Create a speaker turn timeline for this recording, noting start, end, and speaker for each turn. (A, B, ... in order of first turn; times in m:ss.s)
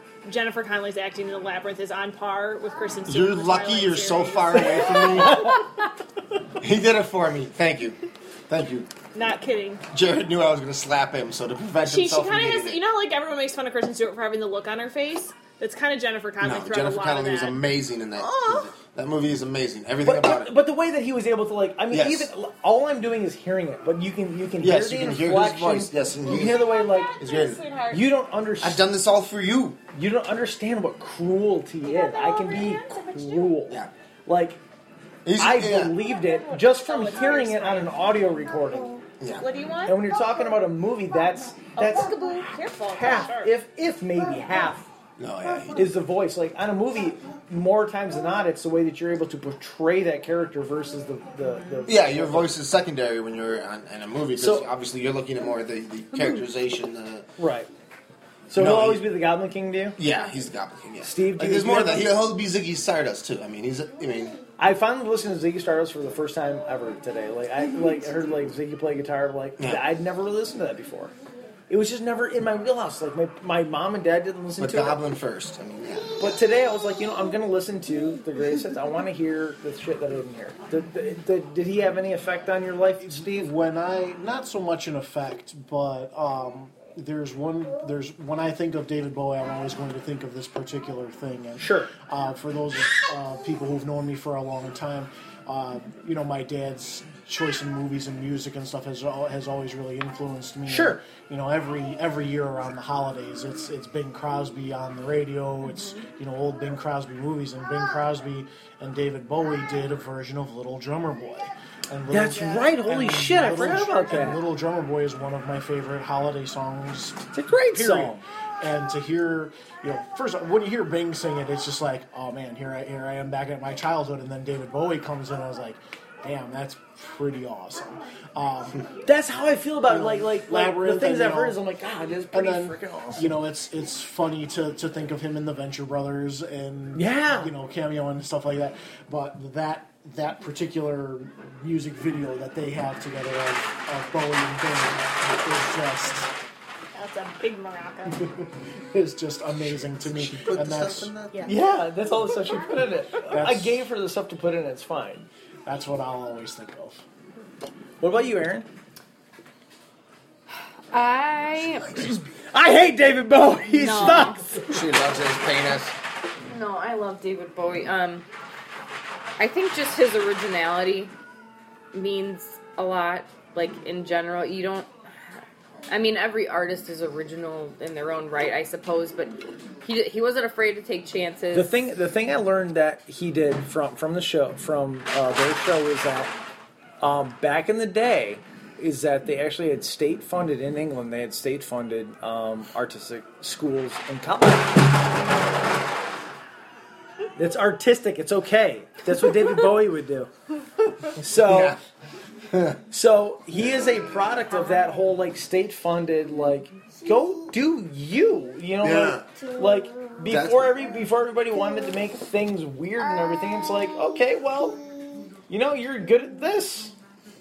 0:00.2-0:05.4 A
0:03.0-0:05.6 B
0:06.6-0:08.9 B
0:09.1-0:09.8 A
0:09.9-0:12.8 B
0:11.8-0:17.6 A
0:16.4-0:20.5 B
0:18.2-0:18.7 A
0:20.0-0:27.2 C
0:21.9-0:22.3 B
0:24.6-0:27.6 B
0:27.3-0:28.0 A
0:27.9-0:28.9 C
0:28.6-0:29.8 B
0:29.9-0:34.6 C
0:32.3-0:33.4 A
0:35.2-0:36.0 B
0:35.4-0:39.0 C
0:36.3-0:38.0 A
0:39.2-0:39.4 B
0:39.4-0:40.0 A
0:39.8-0:42.2 C
0:41.8-0:43.5 A
0:42.9-0:44.9 C
0:45.2-0:45.9 B
0:45.7-0:52.5 C
0:51.8-0:57.3 B
0:54.4-0:54.7 C
0:57.4-0:57.7 C
0:58.5-1:00.0 C
0:58.5-0:59.1 B
1:00.0-1:04.4 B
1:01.0-1:02.2 C
1:04.6-1:11.1 C
1:09.6-1:09.8 B
1:11.7-1:15.0 C
1:14.6-1:16.4 B
1:16.2-1:23.5 C
1:23.0-2:08.9 D
1:31.6-1:31.9 C
1:40.6-1:41.0 C
1:52.1-1:54.4 C
1:57.3-1:58.2 C
2:09.0-2:13.2 C
2:09.9-2:11.6 D
2:12.3-2:26.3 D
2:16.9-2:17.5 C
2:26.9-2:28.2 A
2:28.1-2:31.1 D
2:29.7-2:31.5 B
2:31.4-2:35.3 C
2:33.3-2:33.8 D
2:35.6-2:37.0 D
2:38.0-2:38.7 C
2:40.9-2:42.0 E
2:42.0-2:44.6 C
2:43.7-2:44.4 A
2:44.6-2:45.9 B
2:46.4-2:48.2 E
2:49.4-2:51.1 E
2:51.9-3:01.7 E
3:01.5-3:06.3 C
3:07.0-3:14.8 C
3:17.4-3:20.3 C
3:21.1-3:21.8 C
3:21.3-3:21.8 B
3:22.5-3:22.8 B
3:22.9-3:34.8 C
3:28.8-3:29.2 B
3:30.3-3:30.8 B
3:35.5-3:36.9 C